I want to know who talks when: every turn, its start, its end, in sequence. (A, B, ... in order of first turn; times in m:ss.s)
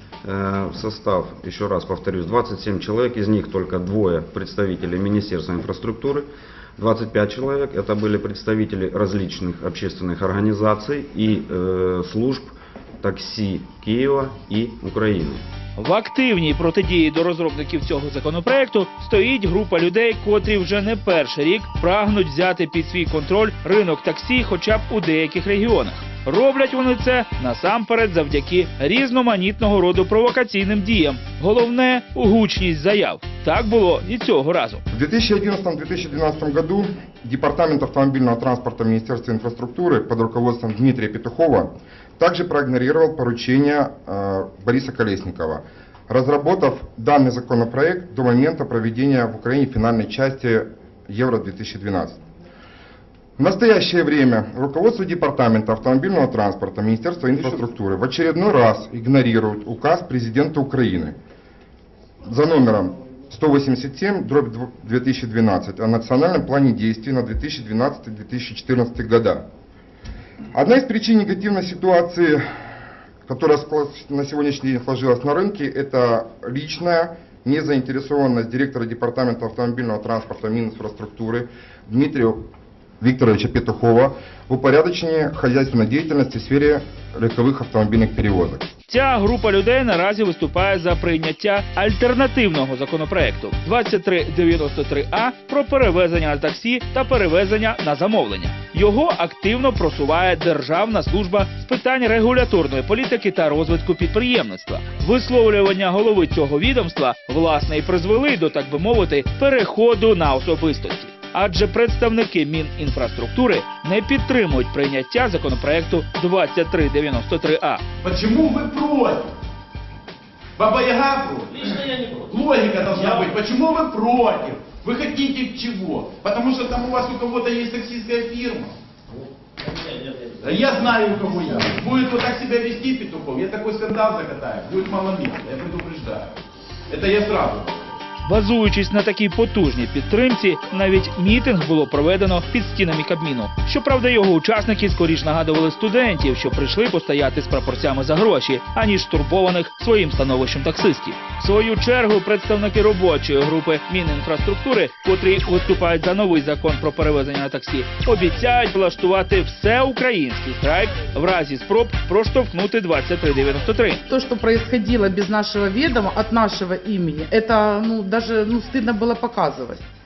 0:00.2-0:15.4 A
0:15.8-0:34.8 B
0:34.9-0:52.2 C
0:53.4-1:01.2 C
1:02.2-1:09.4 C
1:10.5-1:12.4 C
1:13.2-1:22.4 C
1:23.0-1:28.6 C
1:28.9-1:57.8 B
1:58.0-1:59.3 D
2:00.6-2:08.7 D
2:10.4-2:16.3 D
2:16.9-2:17.9 D
2:18.2-2:44.0 B
2:44.1-2:49.8 E